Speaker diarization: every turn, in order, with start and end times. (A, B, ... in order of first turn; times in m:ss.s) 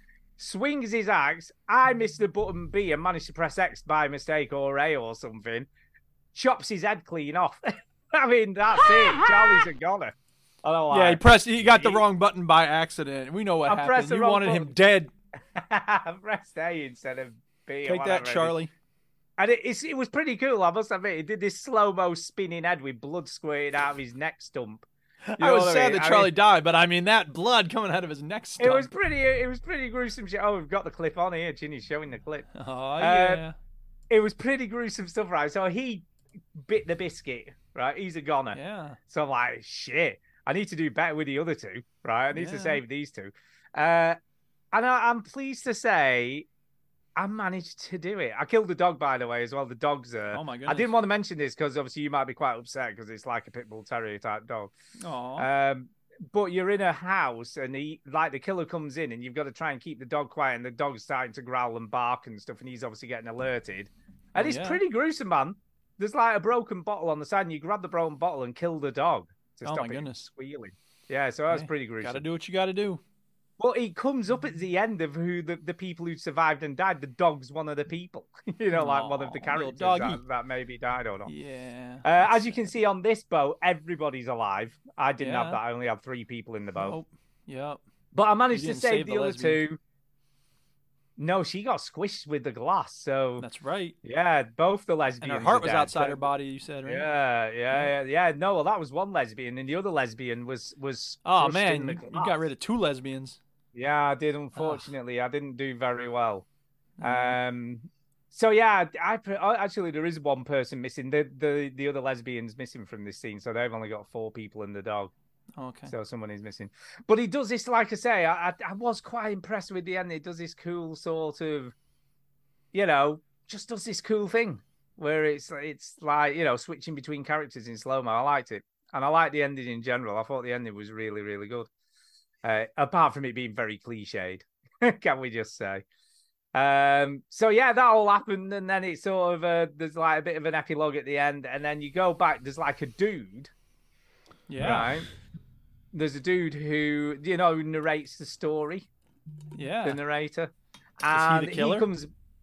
0:00.4-0:05.7 A
0:06.3-0:12.0 A
0:08.9-0:09.6 B
0:10.9-0:15.1 B
0:13.7-0:14.7 A
0:15.6-0:18.6 A
0:17.8-0:18.7 B
0:19.4-0:24.9 A
0:25.3-0:28.9 B
0:25.4-0:26.3 A
0:28.6-0:33.4 A
0:32.6-0:33.6 B
0:34.1-0:44.2 A
0:38.5-0:39.0 B
0:42.3-0:42.8 B
0:44.7-0:46.5 A
0:47.2-0:54.7 A
0:50.3-0:50.9 B
0:55.0-0:55.5 B
0:55.4-1:12.2 A
1:04.4-1:04.8 B
1:09.7-1:10.3 B
1:11.5-1:13.0 B
1:13.6-1:21.3 A
1:18.7-1:20.2 B
1:21.3-1:22.6 B
1:22.0-1:27.0 A
1:25.2-1:25.6 B
1:26.8-1:27.8 B
1:28.1-1:29.8 A
1:28.5-1:29.6 B
1:31.2-1:33.5 A
1:33.4-1:34.0 B
1:34.0-1:36.3 A
1:35.2-1:37.1 B
1:36.8-1:42.5 A
1:41.2-1:43.4 B
1:43.7-1:46.5 A
1:44.6-1:44.9 B
1:47.0-1:47.4 B
1:47.0-1:55.1 A
1:55.6-1:55.9 B
1:55.9-2:01.7 A
2:02.7-2:11.7 A
2:12.4-2:15.8 A
2:16.5-2:23.5 A
2:24.5-2:24.9 B
2:24.6-2:25.1 A
2:25.9-2:28.9 A
2:29.6-2:30.0 B
2:29.8-2:32.1 A
2:31.1-2:31.9 B